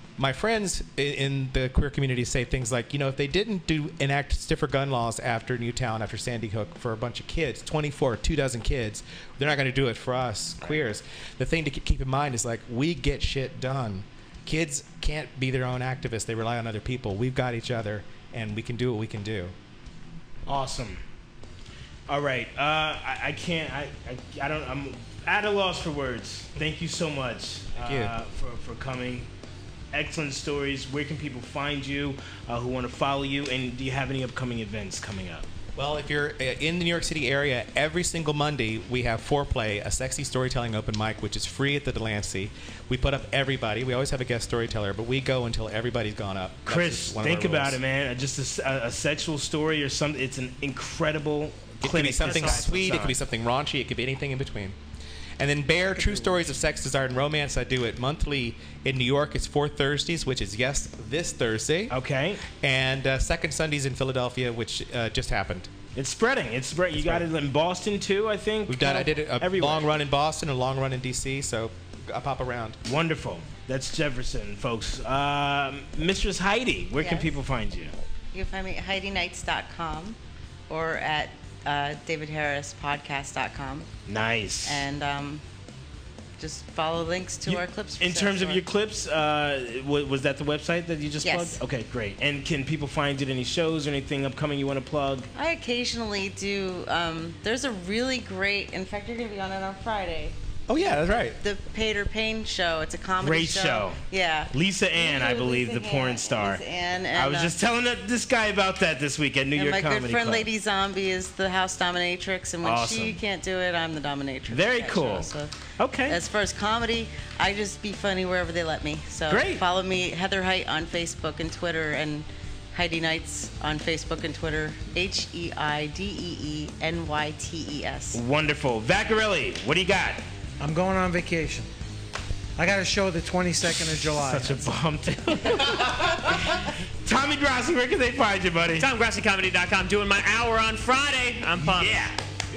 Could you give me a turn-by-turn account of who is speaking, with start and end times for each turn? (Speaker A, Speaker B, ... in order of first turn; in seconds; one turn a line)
Speaker A: 0.2-19.5
Speaker B: 20.5-21.0
Speaker B: 22.1-29.3
Speaker A: 27.8-28.1
Speaker B: 29.9-35.5
Speaker A: 35.8-47.8
Speaker B: 46.6-53.2
Speaker A: 51.8-54.8
Speaker C: 52.2-52.9
Speaker A: 55.4-61.9
Speaker B: 56.0-56.5
Speaker B: 61.9-62.4
Speaker A: 62.5-65.7
Speaker B: 65.9-69.9
Speaker A: 67.0-67.3
Speaker A: 68.7-72.8
Speaker B: 72.8-78.0
Speaker D: 77.0-77.3
Speaker D: 78.3-80.2
Speaker D: 80.7-83.9
Speaker B: 84.1-84.8
Speaker D: 84.6-85.4
Speaker D: 86.4-88.6
Speaker B: 87.5-95.3
Speaker D: 91.2-91.6
Speaker D: 95.3-100.3
Speaker A: 100.7-101.4
Speaker D: 101.4-107.5
Speaker B: 103.2-106.6
Speaker B: 107.1-110.5
Speaker D: 109.5-115.5
Speaker B: 112.6-113.2
Speaker B: 114.5-116.2
Speaker D: 116.1-128.2
Speaker B: 119.3-119.6
Speaker B: 128.1-130.2
Speaker E: 130.6-131.7
Speaker E: 132.6-134.7
Speaker B: 134.2-138.9
Speaker C: 138.8-142.1
Speaker B: 141.6-142.2